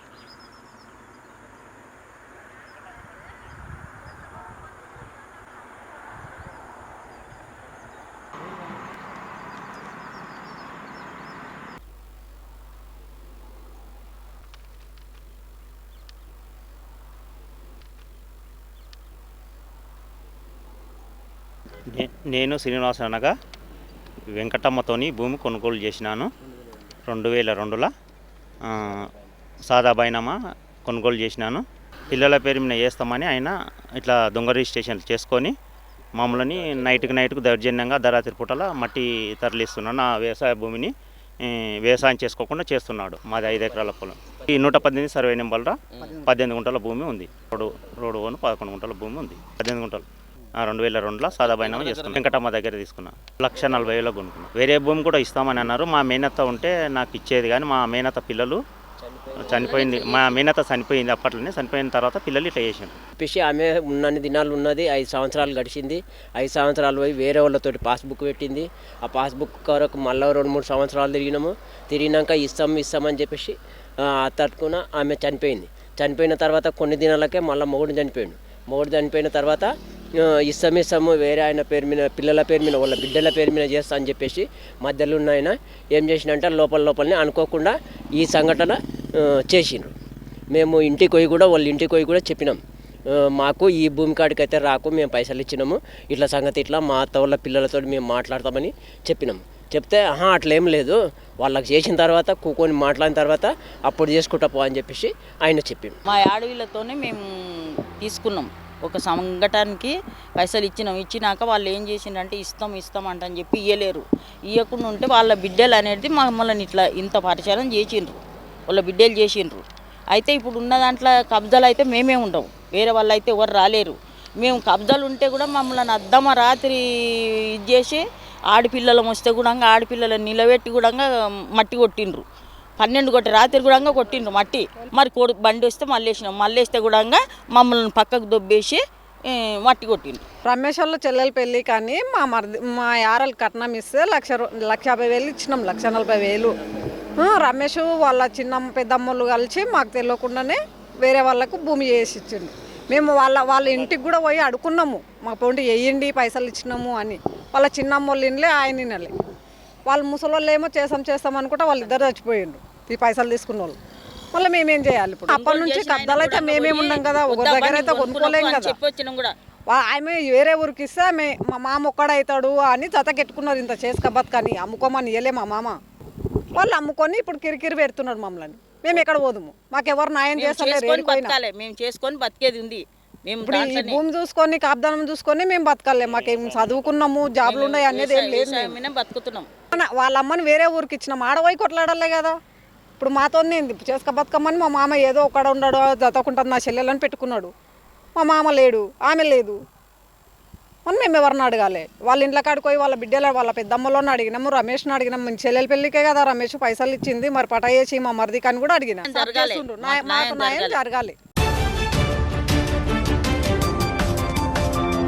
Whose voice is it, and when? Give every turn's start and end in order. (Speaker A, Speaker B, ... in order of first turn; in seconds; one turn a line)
Speaker A: 21.9-23.3
Speaker A: 24.4-26.3
Speaker A: 27.1-27.9
Speaker A: 28.7-29.1
Speaker A: 29.7-35.5
Speaker A: 36.2-40.9
Speaker A: 41.4-50.1
Speaker A: 50.6-58.6
Speaker B: 59.1-60.0
Speaker A: 59.4-63.0
Speaker C: 59.4-60.2
Speaker B: 63.2-89.9
Speaker B: 90.5-106.0
Speaker C: 106.1-132.2
Speaker C: 132.8-138.8
Speaker C: 139.6-140.2
Speaker D: 140.4-146.5
Speaker D: 147.2-159.1
Speaker D: 159.9-163.8
Speaker D: 164.3-168.8
Speaker C: 165.3-169.3
Speaker D: 169.7-175.8
Speaker D: 176.5-181.3
Speaker C: 180.4-184.0
Speaker D: 183.4-188.8
Speaker A: 186.2-186.9
Speaker C: 187.4-189.5
Speaker D: 189.8-192.4
Speaker D: 193.0-197.5
Speaker D: 198.2-199.6
Speaker D: 200.9-211.2
Speaker C: 209.1-210.8